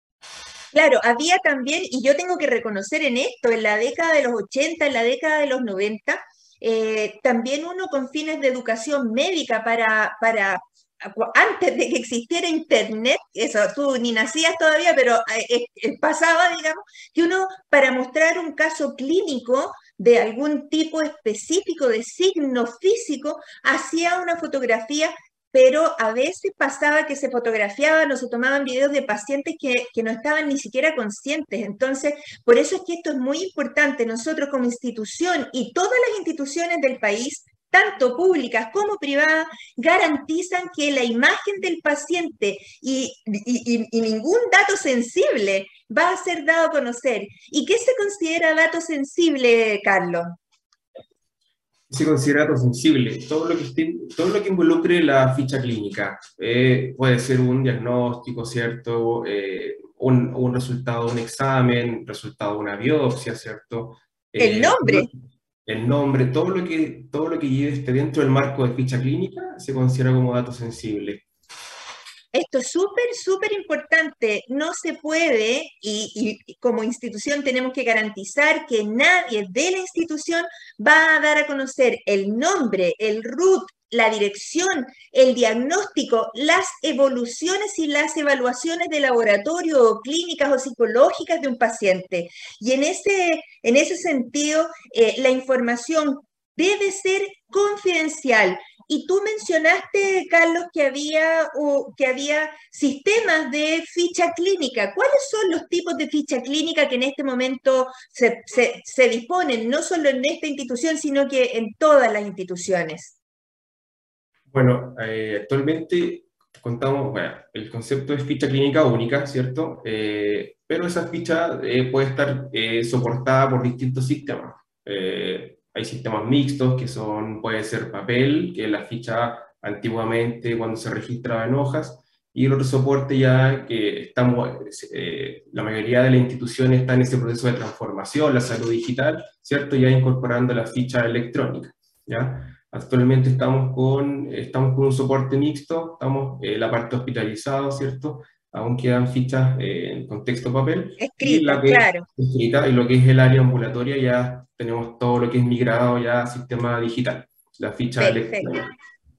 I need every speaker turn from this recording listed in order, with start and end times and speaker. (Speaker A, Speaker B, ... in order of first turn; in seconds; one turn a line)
Speaker A: 0.7-50.4
Speaker B: 51.9-65.1
Speaker A: 64.4-65.1
Speaker B: 65.7-71.2
Speaker A: 72.3-113.2
Speaker B: 114.5-158.7
Speaker A: 151.0-152.1
Speaker A: 158.0-158.5